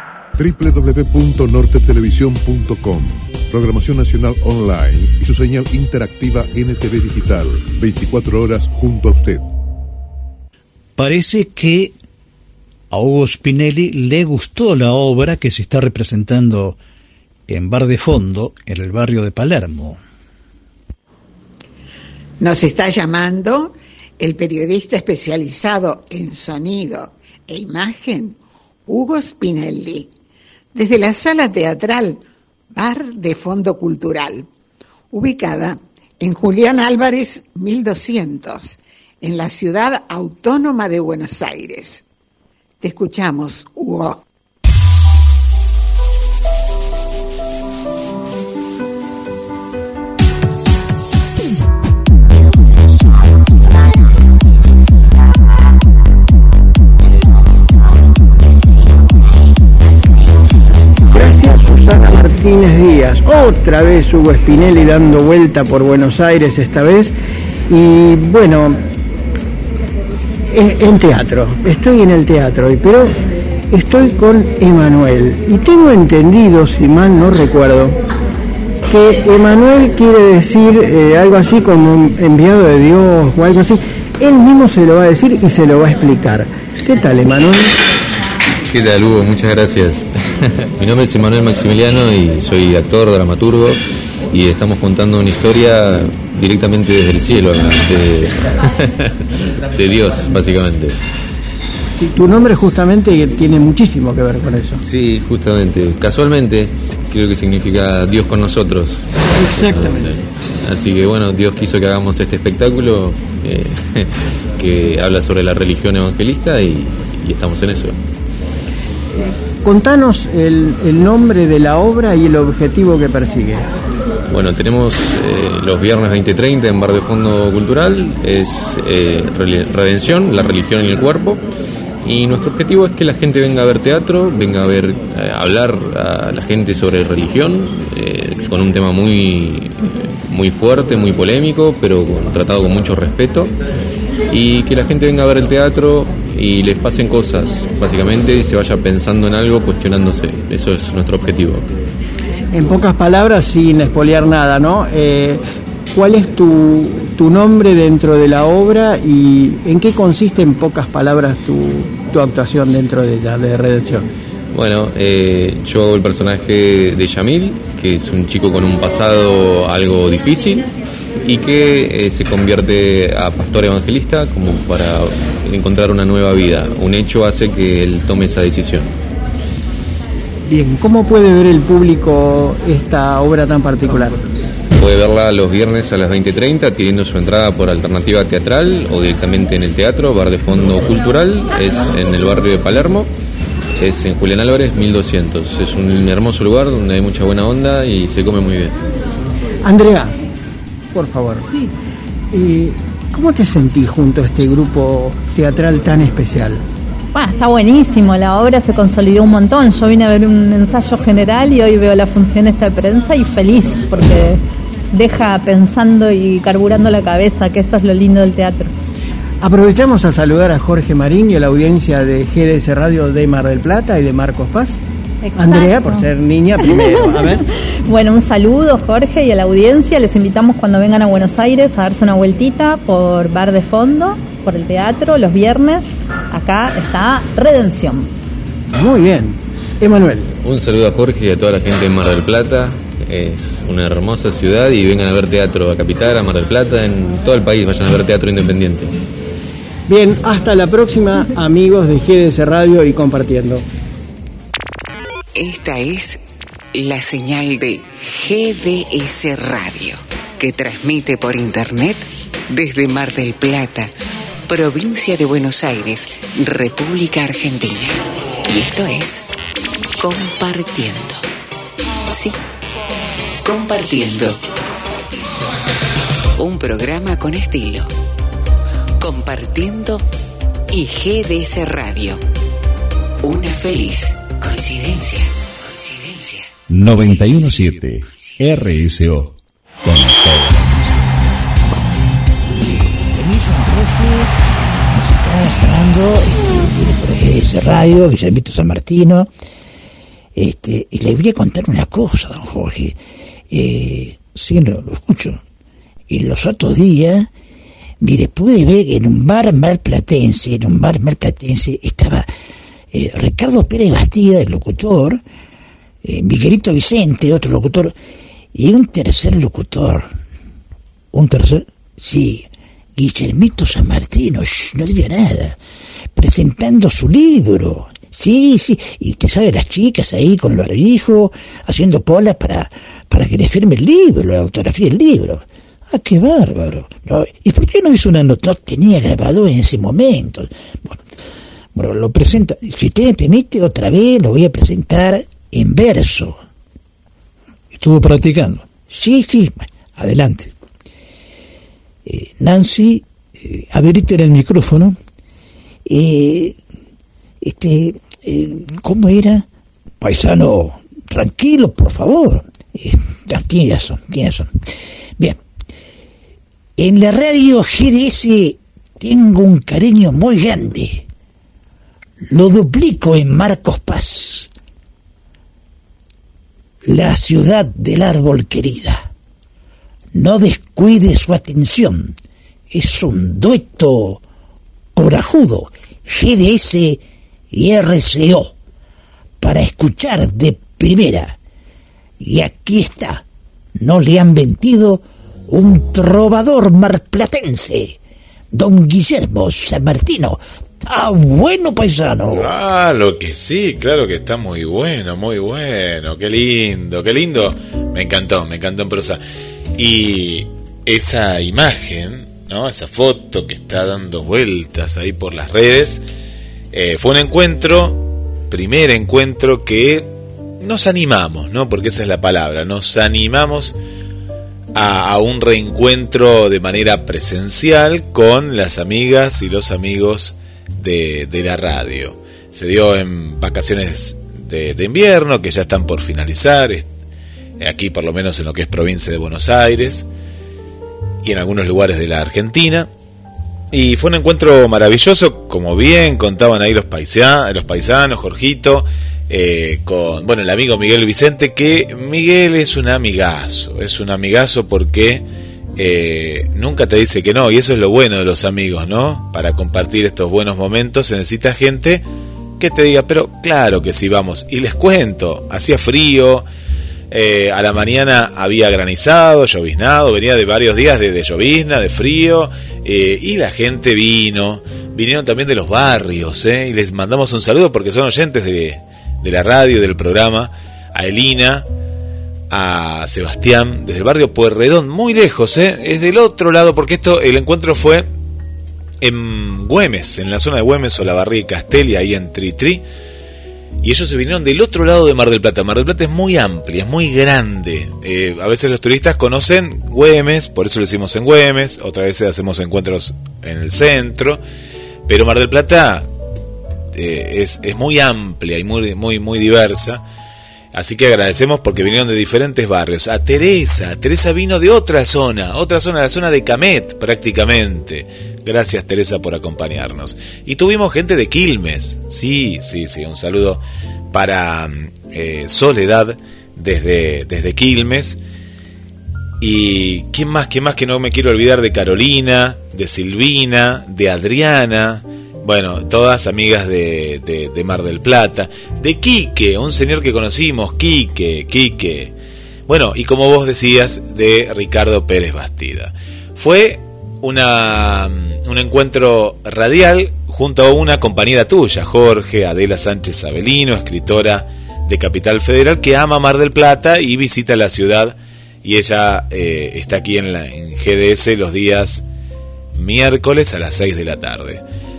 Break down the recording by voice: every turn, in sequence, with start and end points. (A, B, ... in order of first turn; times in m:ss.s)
0:00.4-0:09.5 A
0:11.0-0:11.9 B
0:12.9-0:16.8 B
0:17.5-0:20.0 B
0:22.4-0:30.1 C
0:30.7-0:32.2 C
0:32.7-0:34.5 C
0:35.1-0:42.0 C
0:42.8-0:44.2 C
1:01.1-1:07.2 D
1:07.7-1:08.8 D
1:10.5-1:18.0 D
1:18.9-1:27.8 D
1:28.7-1:39.1 E
1:39.7-1:41.0 E
1:42.0-1:44.8 D
1:44.8-1:58.0 E
1:49.4-1:50.1 D
1:59.6-2:03.7 D
2:04.3-2:11.5 E
2:12.0-2:23.6 E
2:24.3-2:31.7 E
2:32.5-2:35.4 D
2:35.9-2:44.1 D
2:44.5-2:50.7 E
2:51.2-2:58.9 E
3:00.5-3:04.2 D
3:04.8-3:13.1 E
3:13.8-3:18.8 E
3:19.6-3:20.2 D
3:20.9-3:21.7 D
3:22.3-3:26.6 D
3:27.1-3:34.4 F
3:34.9-3:38.7 F
3:39.4-3:44.8 D
3:45.2-3:46.1 F
3:45.4-3:47.4 D
3:46.9-3:47.2 F
3:47.8-3:58.1 F
3:58.7-4:00.3 D
4:00.4-4:08.9 E
4:09.9-4:13.6 D
4:15.4-4:16.2 G
4:16.7-4:23.9 G
4:24.5-4:29.3 G
4:30.0-4:31.2 G
4:32.1-4:32.4 G
4:33.4-4:34.4 G
4:36.4-4:37.9 G
4:39.0-4:40.1 G
4:40.7-4:42.2 G
4:43.2-4:47.5 G
4:46.7-4:51.0 H
4:52.5-4:59.3 I
5:00.4-5:03.0 I
5:03.5-5:05.4 I
5:06.1-5:07.3 I
5:08.0-5:12.3 I
5:12.9-5:15.2 I
5:16.0-5:17.9 I
5:18.5-5:20.2 I
5:21.1-5:25.6 I
5:26.2-5:41.0 I
5:41.7-5:46.4 I
5:47.7-5:48.7 B
5:48.8-5:50.5 I
5:52.1-5:54.0 I
5:53.9-5:55.0 B
5:55.9-5:56.6 I
5:57.4-5:59.5 I
6:00.0-6:04.5 I
6:06.8-6:11.1 I
6:12.2-6:14.5 I
6:16.8-6:19.1 I
6:20.1-6:22.2 I
6:22.7-6:24.2 I
6:25.0-6:28.5 I
6:29.4-6:31.4 I
6:32.2-6:33.2 I
6:33.8-6:38.0 I
6:38.5-6:42.5 I
6:42.3-6:49.2 J
6:49.8-6:56.0 J
6:56.7-7:00.1 J
7:00.6-7:03.8 J
7:04.8-7:16.9 J
7:17.6-7:20.1 J
7:21.2-7:22.9 J
7:23.7-7:35.2 J
7:35.8-7:42.0 J
7:42.6-7:46.4 J
7:47.1-8:01.7 J
8:02.5-8:08.1 J
8:09.0-8:12.8 J
8:13.8-8:24.4 J
8:25.1-8:26.1 J
8:27.0-8:30.0 J
8:30.7-8:43.6 J
8:44.1-8:48.2 J
8:49.4-9:02.1 J
9:02.7-9:22.0 J
9:22.8-9:24.6 J